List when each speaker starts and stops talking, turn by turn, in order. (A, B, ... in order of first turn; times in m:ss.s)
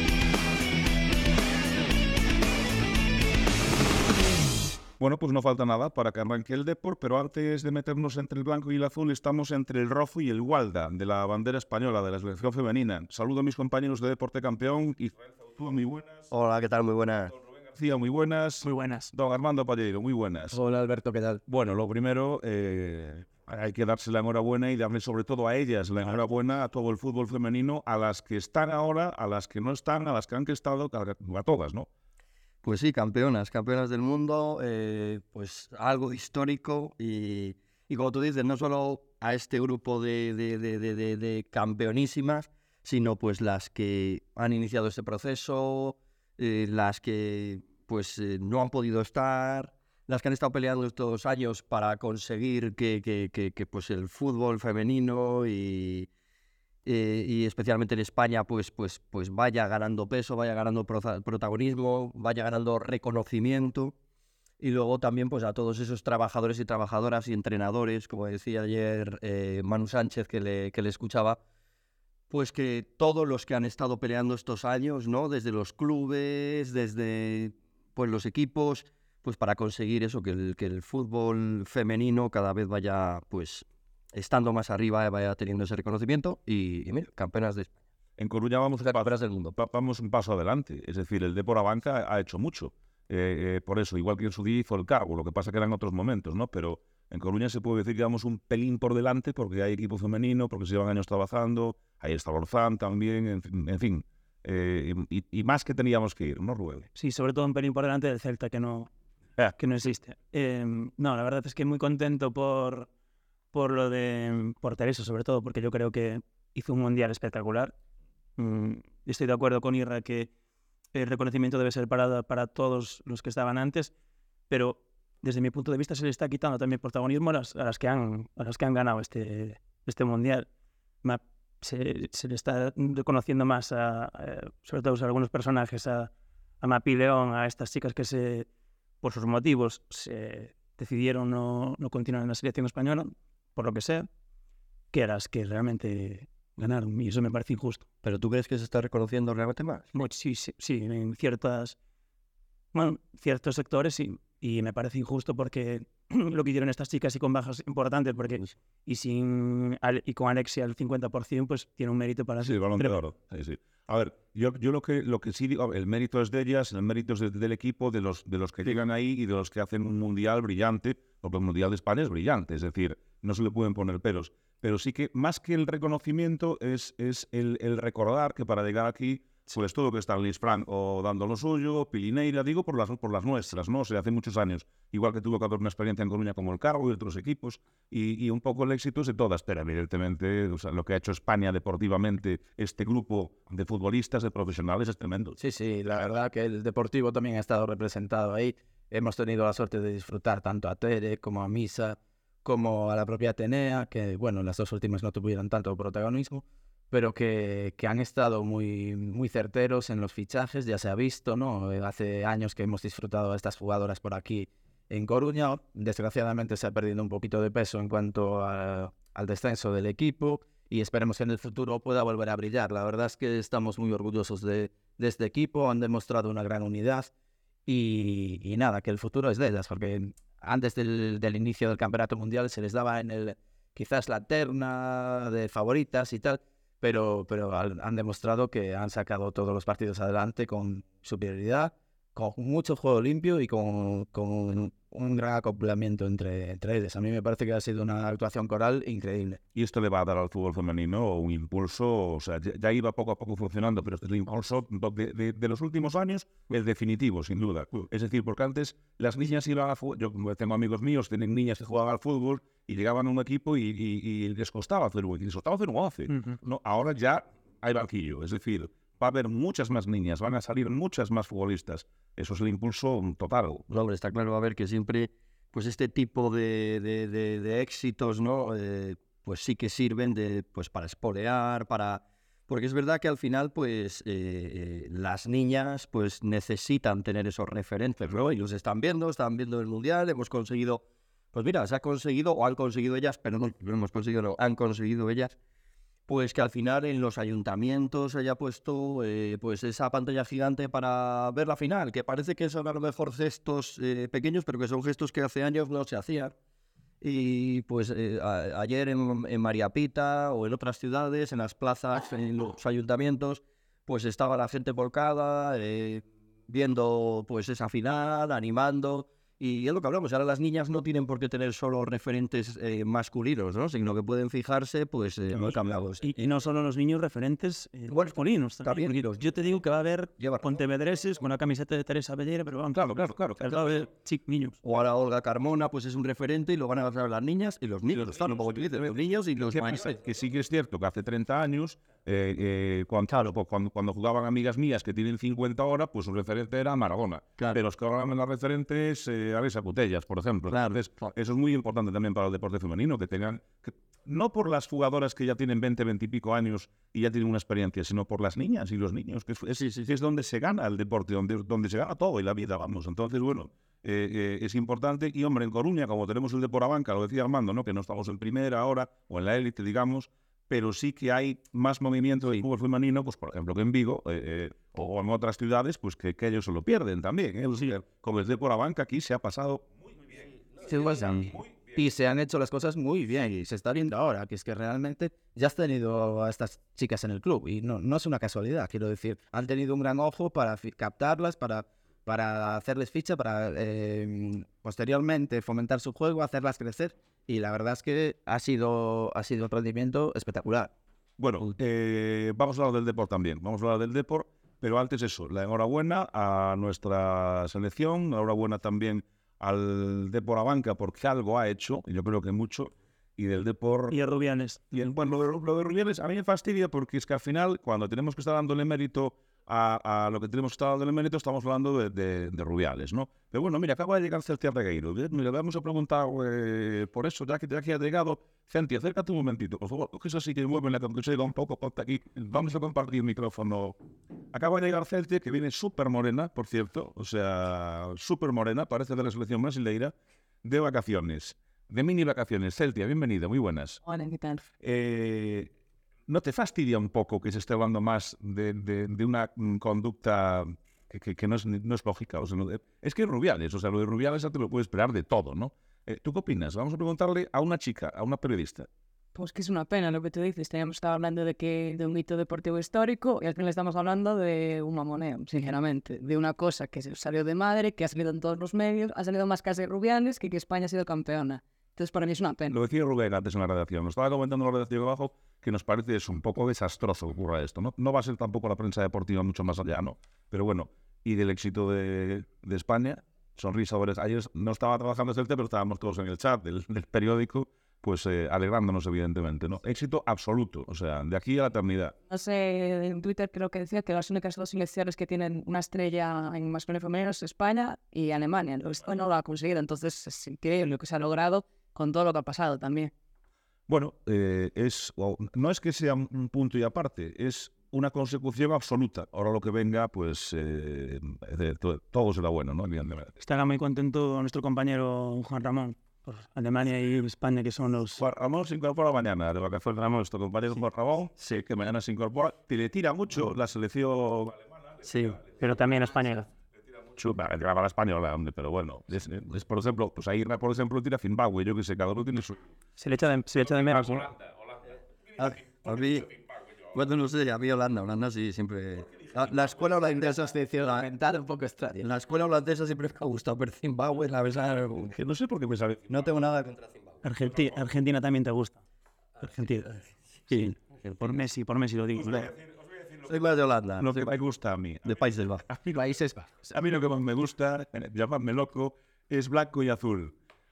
0:05.0-0:16.3 A
0:16.3-0:17.3 B
0:17.7-0:20.6 A
0:18.6-0:19.1 C
0:20.5-0:21.4 D
0:21.5-0:31.9 A
0:32.6-0:56.1 B
0:56.8-1:03.9 B
1:04.6-1:11.4 B
1:12.3-1:27.7 B
1:28.2-1:46.9 A
1:28.9-1:29.6 B
1:47.0-1:48.9 C
1:49.6-1:52.9 C
1:53.5-1:57.7 C
1:58.4-2:00.3 C
2:00.9-2:03.9 C
2:04.5-2:10.5 C
2:11.0-2:18.5 C
2:19.0-2:24.1 C
2:24.9-2:27.9 C
2:28.0-2:29.9 B
2:29.9-2:31.8 C
2:32.7-2:42.9 C
2:42.4-3:15.4 A
3:15.4-3:47.1 D
3:47.7-4:09.4 D
4:09.6-4:33.6 A
4:33.7-4:55.4 B
4:56.1-5:06.4 B
5:07.0-5:26.1 B
5:26.0-5:32.8 C
5:27.9-5:29.2 B
5:30.2-5:30.5 B
5:32.7-5:33.6 A
5:33.4-5:34.6 C
5:34.6-5:39.9 B
5:39.5-6:19.6 A
5:50.5-5:51.1 B
5:59.6-5:59.9 B
6:20.6-6:40.7 D
6:41.2-6:54.0 A
6:53.9-6:54.6 C
6:54.7-7:13.8 A
7:14.3-7:19.9 A
7:20.4-7:23.8 A
7:23.8-7:24.4 E
7:24.6-7:25.5 A
7:26.1-7:38.7 A
7:39.2-7:52.6 E
7:52.5-8:12.0 A
8:12.1-8:22.9 E
8:23.7-8:33.2 A
8:33.2-8:38.0 C
8:38.0-8:44.4 A
8:44.8-8:45.2 B
8:45.3-8:46.3 C
8:46.9-8:52.4 A
8:52.8-8:54.1 C
8:55.2-8:56.2 B
8:56.7-9:00.0 B
8:59.7-9:01.9 D
9:01.8-9:05.0 B
9:04.9-9:05.9 A
9:05.9-9:07.0 B
9:07.0-9:08.6 C
9:09.2-9:09.8 C
9:10.3-9:10.6 B
9:10.3-9:12.3 C
9:13.0-9:14.1 B
9:13.8-9:14.9 A
9:14.8-9:15.5 B
9:15.7-9:16.3 D
9:16.4-9:20.1 A